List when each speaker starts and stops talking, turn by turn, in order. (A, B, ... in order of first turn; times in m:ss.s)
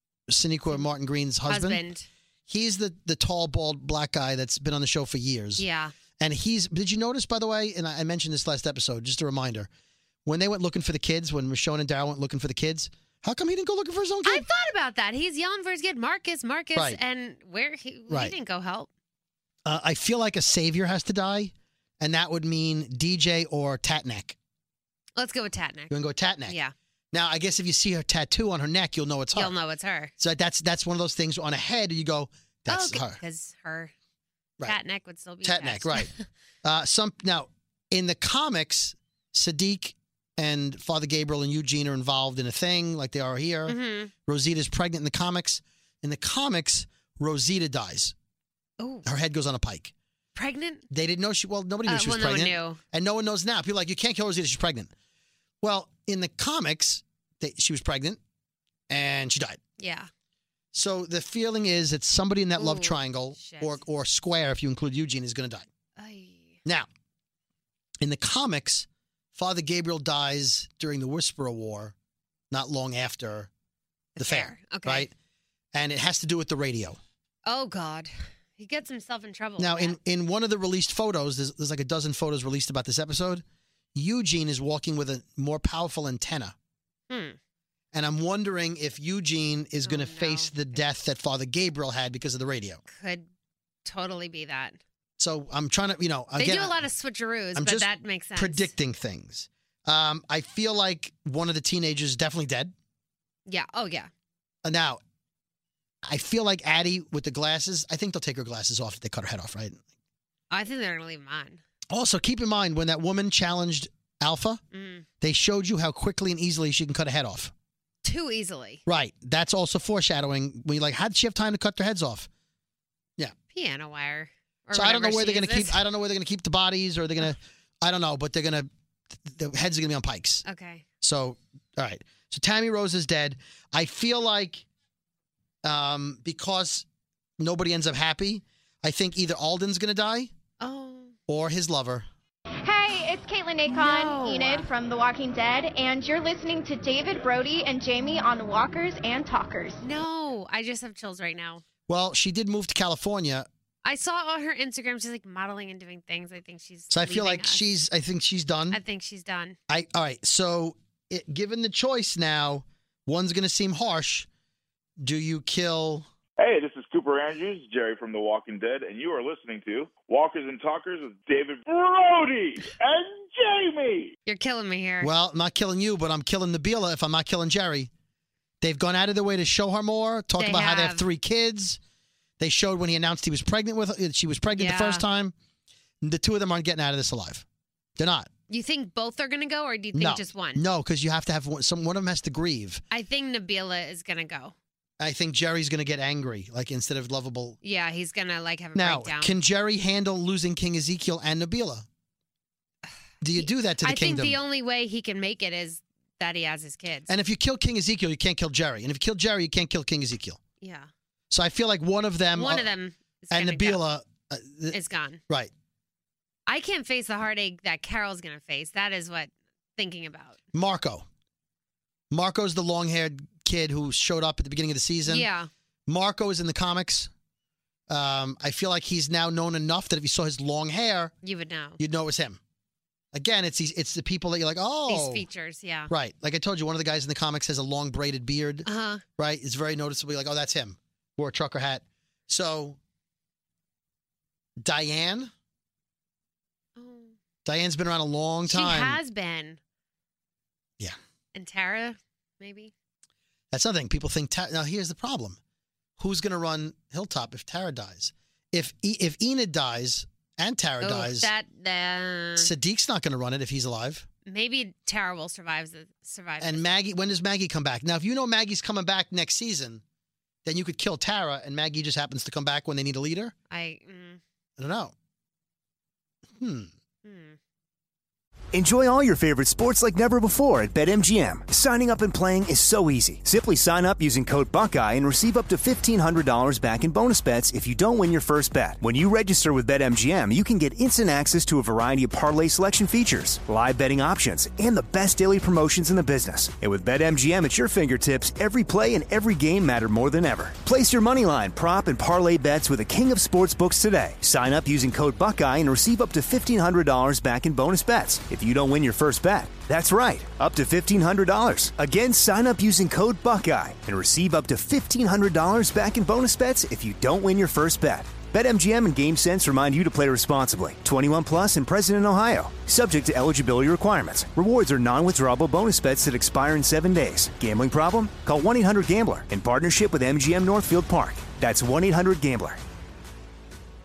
0:00.3-0:01.8 A
0:01.5-0:02.1 B
0:02.5-0:05.6 A
0:05.6-0:05.9 B
0:06.2-0:09.7 A
0:10.3-0:14.5 A
0:14.2-0:18.9 B
0:18.1-0:18.3 A
0:19.7-0:24.4 A
0:25.2-0:26.7 B
0:25.9-0:26.6 A
0:27.1-0:29.6 A
0:29.3-0:30.1 B
0:30.2-0:33.2 A
0:32.7-0:33.9 B
0:34.6-0:36.2 B
0:35.4-0:36.1 A
0:36.6-0:48.1 A
0:43.7-0:44.1 B
0:48.8-0:49.1 B
0:49.0-0:49.9 A
0:50.4-0:50.8 B
0:50.9-0:54.9 A
0:51.9-0:52.8 B
0:55.6-0:58.2 A
0:58.9-0:59.6 A
0:59.8-1:00.1 B
1:00.7-1:05.7 A
1:02.6-1:03.8 B
1:06.0-1:06.6 B
1:08.0-1:11.9 A
1:12.5-1:13.5 A
1:14.2-1:15.1 B
1:14.2-1:15.1 A
1:15.7-1:17.0 A
1:17.5-1:20.0 B
1:19.6-1:26.6 A
1:27.1-1:27.4 B
1:27.9-1:32.8 A
1:29.8-1:30.5 B
1:32.9-1:33.2 B
1:33.8-1:34.8 B
1:35.2-1:36.9 A
1:36.4-1:38.7 B
1:37.6-1:42.7 A
1:43.5-1:44.1 B
1:44.6-1:45.0 A
1:46.0-1:49.8 A
1:50.5-1:51.6 B
1:51.9-1:54.6 A
1:54.7-1:55.1 B
1:55.2-1:57.5 A
1:58.0-1:58.8 B
1:58.9-2:02.3 A
2:03.5-2:05.8 B
2:04.7-2:08.7 A
2:09.2-2:10.4 A
2:10.4-2:10.8 B
2:11.0-2:14.6 A
2:15.6-2:16.9 A
2:17.4-2:20.3 A
2:20.6-2:21.2 B
2:21.3-2:22.1 A
2:22.6-2:29.8 C
2:23.7-2:24.7 B
2:29.8-2:31.6 B
2:31.9-2:33.5 A
2:33.8-2:37.6 B
2:36.9-2:38.8 A
2:38.7-2:39.6 B
2:39.7-2:44.3 A
2:45.0-2:46.1 A
2:46.4-2:54.1 D
2:54.3-2:55.1 B
2:55.0-2:57.9 A
2:58.6-3:01.8 A
3:00.4-3:01.1 B
3:02.4-3:05.3 A
3:04.6-3:05.0 B
3:06.0-3:07.4 A
3:08.0-3:08.3 A
3:08.5-3:10.6 B
3:10.0-3:12.8 A
3:12.9-3:14.6 B
3:15.0-3:17.6 A
3:17.6-3:19.4 B
3:18.8-3:21.9 A
3:22.9-3:27.1 B
3:23.2-3:24.4 A
3:27.1-3:30.4 A
3:30.6-3:30.9 B
3:31.3-3:32.7 A
3:32.4-3:33.8 B
3:33.3-3:34.8 A
3:34.7-3:35.2 B
3:36.5-3:40.4 B
3:40.5-3:41.1 A
3:42.1-3:45.3 A
3:45.1-3:45.5 B
3:45.9-3:47.1 A
3:47.9-3:51.1 A
3:51.2-3:51.8 B
3:51.8-3:52.4 A
3:53.1-3:55.3 A
3:54.9-3:55.9 B
3:55.9-4:02.8 A
3:58.7-3:59.0 B
4:04.6-4:05.3 A
4:06.8-4:07.2 B
4:07.4-4:09.0 A
4:08.5-4:09.6 B
4:11.4-4:12.7 B
4:13.5-4:15.4 A
4:16.0-4:21.3 A
4:20.8-4:22.5 B
4:22.4-4:24.1 A
4:24.3-4:26.7 B
4:26.4-4:29.8 A
4:30.4-4:33.3 A
4:33.5-4:34.2 B
4:34.6-4:34.9 A
4:36.4-4:36.7 A
4:37.0-4:37.4 B
4:38.5-5:32.6 E